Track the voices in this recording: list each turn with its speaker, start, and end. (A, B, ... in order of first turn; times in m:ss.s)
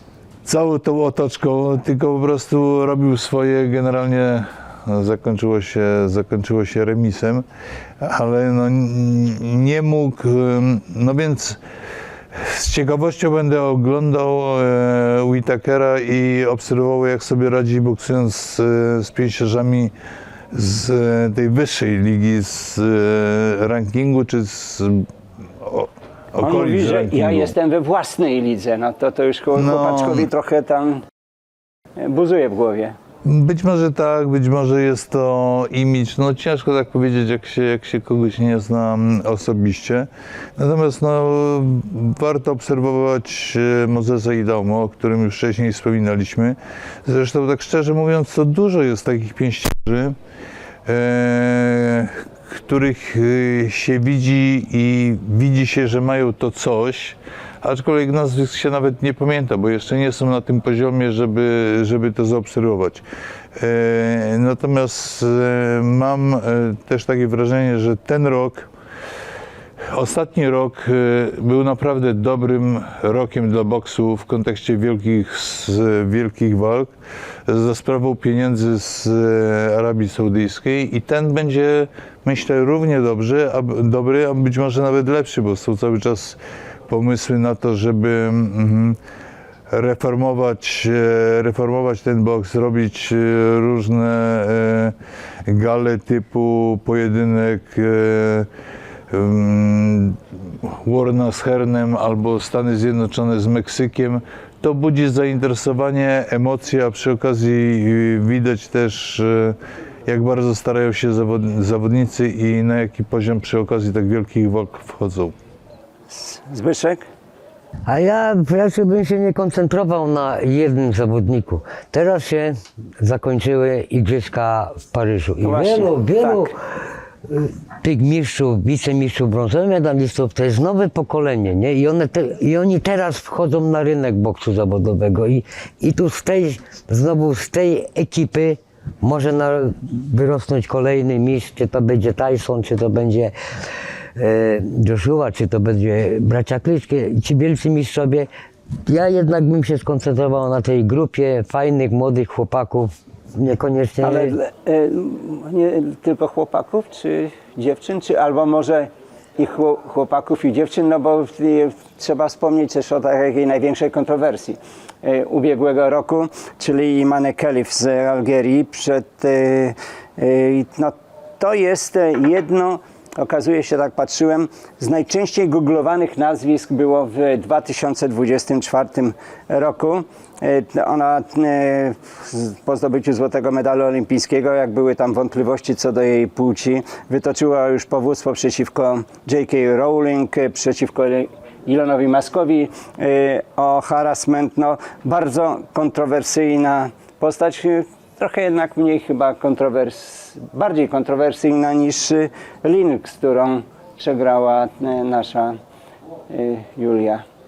0:00.4-0:07.4 A
0:08.0-0:11.6 A
0:12.3-0:19.9 A
0:20.5-0:27.5 A
0:26.4-0:31.0 B
0:29.6-0:30.3 A
0:32.0-0:33.0 B
0:33.2-0:50.2 A
0:50.8-1:03.0 A
1:03.6-1:08.7 A
1:09.9-1:16.9 A
1:17.5-1:26.4 A
1:26.9-1:29.0 A
1:29.7-1:38.5 A
1:39.1-1:55.4 A
1:56.1-1:57.1 B
1:57.9-2:06.5 C
2:05.4-2:06.5 B
2:07.3-2:23.4 C
2:24.2-2:28.3 C
2:28.9-2:34.4 C
2:34.0-3:25.6 B
3:26.3-3:27.2 B